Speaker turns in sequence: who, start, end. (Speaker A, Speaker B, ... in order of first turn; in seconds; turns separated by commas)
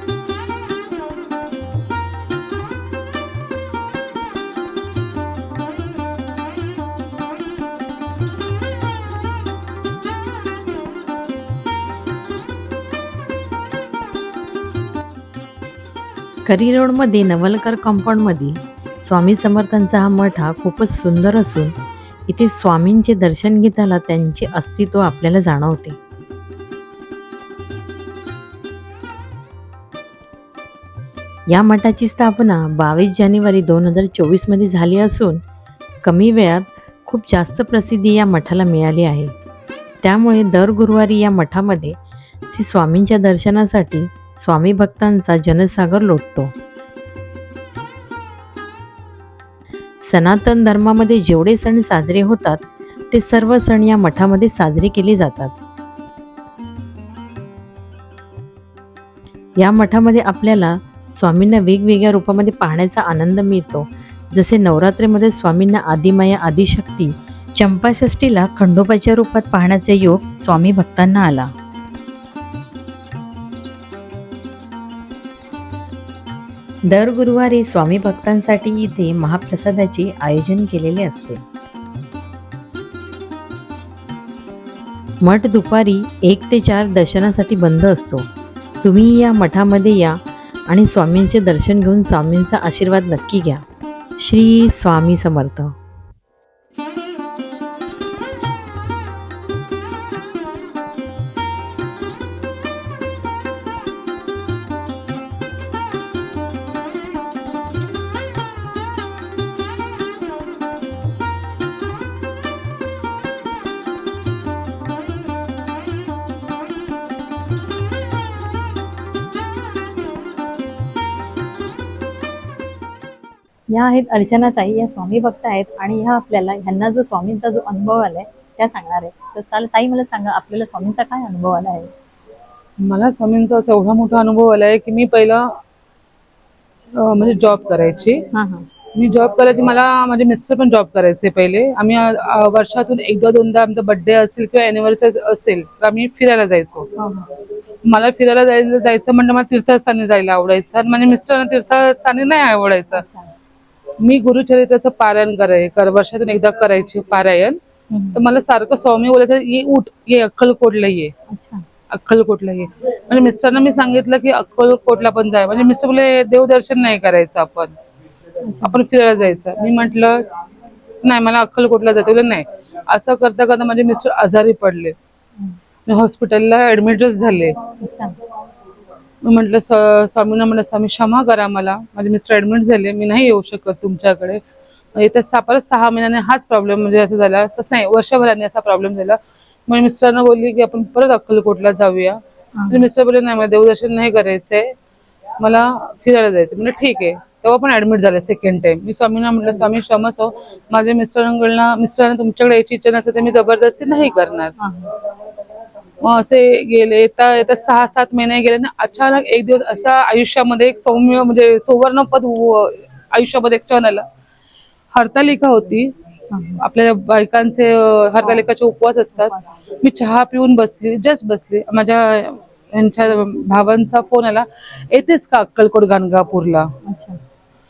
Speaker A: 16.4-21.7, Speaker A: 22.3-26.0, Speaker A: 31.5-35.4, Speaker A: 36.0-39.3, Speaker A: 40.0-42.0, Speaker A: 42.5-46.5, Speaker A: 50.0-55.5, Speaker A: 59.6-71.5, Speaker A: 76.9-81.4, Speaker A: 85.2-88.3, Speaker A: 88.8-90.2, Speaker A: 90.7-93.6, Speaker A: 94.2-95.8, Speaker B: 123.7-131.9, Speaker C: 132.8-135.5, Speaker C: 136.9-138.2, Speaker B: 138.3-138.7, Speaker C: 138.9-146.9, Speaker B: 147.0-147.3, Speaker C: 147.9-153.0, Speaker B: 152.9-153.3, Speaker C: 154.0-157.6, Speaker B: 157.9-158.2, Speaker C: 158.1-161.1, Speaker B: 161.3-161.6, Speaker C: 161.9-167.7, Speaker B: 168.4-168.8, Speaker C: 168.6-170.2, Speaker C: 171.0-174.9, Speaker C: 175.9-177.5, Speaker B: 177.8-178.2, Speaker C: 179.2-184.4, Speaker C: 184.9-192.2, Speaker B: 192.6-192.9, Speaker C: 192.7-194.7, Speaker C: 195.4-204.5, Speaker B: 204.6-204.9, Speaker C: 206.0-214.1, Speaker C: 214.9-215.9, Speaker B: 216.3-216.6, Speaker C: 216.6-226.7, Speaker B: 218.2-218.5, Speaker B: 219.1-219.4, Speaker B: 226.8-227.2